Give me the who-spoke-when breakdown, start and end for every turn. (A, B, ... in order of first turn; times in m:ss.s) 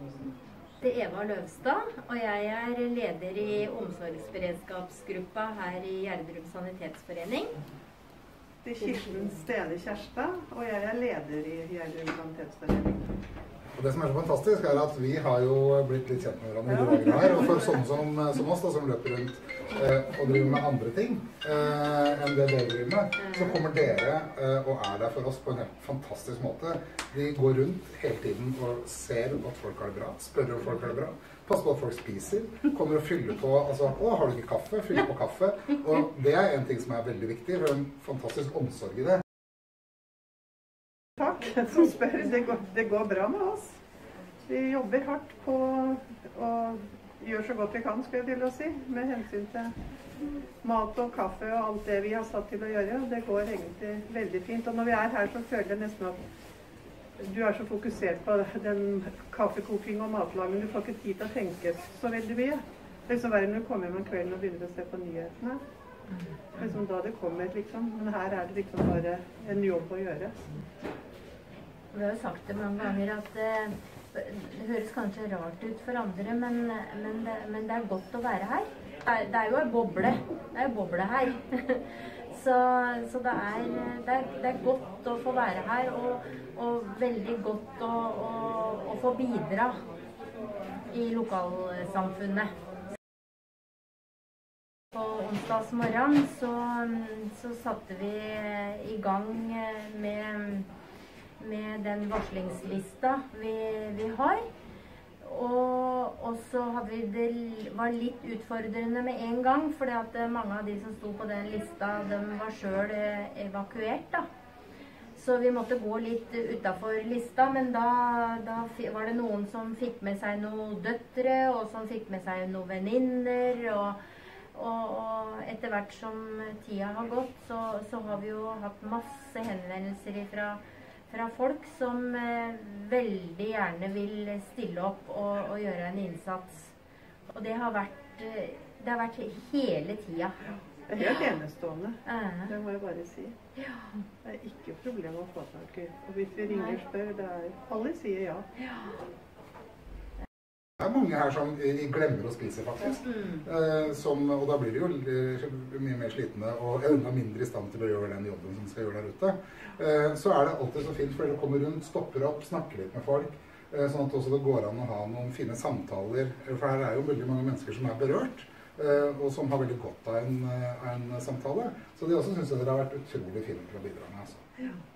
0:00.8-0:07.6 A
0:08.6-0:13.1 B
0:13.8-0:39.2 C
0:16.7-0:17.7 B
0:23.2-0:23.6 A
0:41.2-0:43.8 B
0:44.5-0:49.7 B
0:50.6-0:56.2 B
0:57.2-1:05.6 B
1:06.1-1:06.6 A
1:06.6-1:10.5 B
1:11.9-1:29.8 A
1:30.9-1:32.5 A
1:34.9-1:40.7 A
1:41.4-1:44.4 A
1:45.2-1:54.2 A
1:55.2-2:04.0 A
2:04.5-2:16.7 A
2:17.3-2:20.4 A
2:20.9-2:23.4 B
2:22.1-2:22.6 A
2:23.6-2:24.0 A
2:24.2-2:28.5 B
2:26.5-2:26.8 A
2:28.6-2:29.0 A
2:30.8-2:54.5 C
2:33.0-2:33.4 A